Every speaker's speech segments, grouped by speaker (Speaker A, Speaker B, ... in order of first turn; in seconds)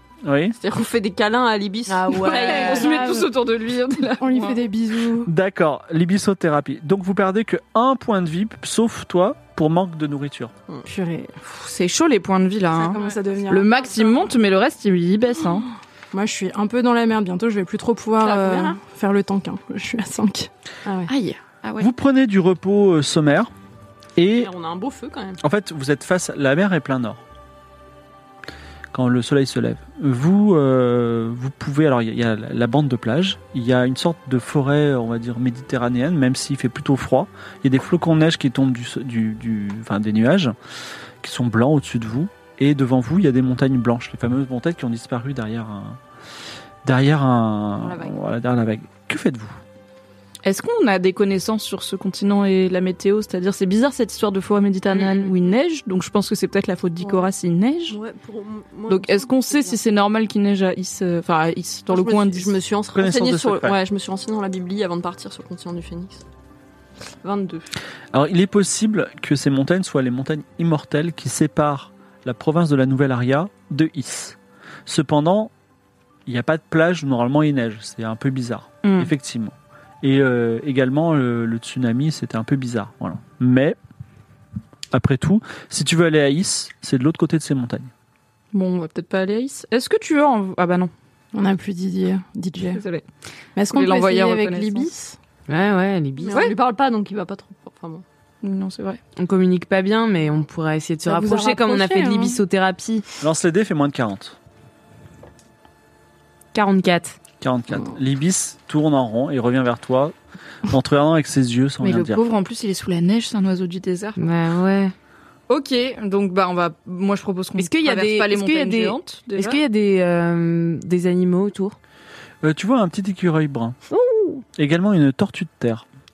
Speaker A: 0.2-0.6, 5.2-10.5, 21.8-23.5, 24.1-24.5, 25.4-27.2, 28.9-40.5, 41.2-46.0, 46.8-49.6, 62.9-63.8, 68.1-75.5, 76.2-83.8, 84.9-87.9, 103.2-104.3, 107.4-110.1, 110.7-112.2, 122.4-123.8, 124.6-125.8
Speaker B: 0.6-3.1, 18.2-18.8, 24.3-25.4, 57.0-57.3, 57.9-59.8, 61.9-66.2, 67.2-67.7, 96.2-98.0
Speaker C: 1.9-3.1, 95.5-96.4, 99.2-103.0, 106.5-107.2, 114.2-114.9, 117.6-121.7, 123.9-124.4
Speaker D: 2.2-3.3, 4.2-5.3, 10.8-11.3, 12.7-14.2, 16.1-21.1, 91.3-92.8, 93.5-95.2, 101.0-102.4
Speaker E: 2.3-4.7, 11.4-15.7, 21.1-21.9, 50.4-58.0, 58.9-62.5, 78.8-79.1, 88.5-90.9, 92.7-93.0, 93.7-94.9, 98.4-99.0, 111.8-114.2, 115.5-119.6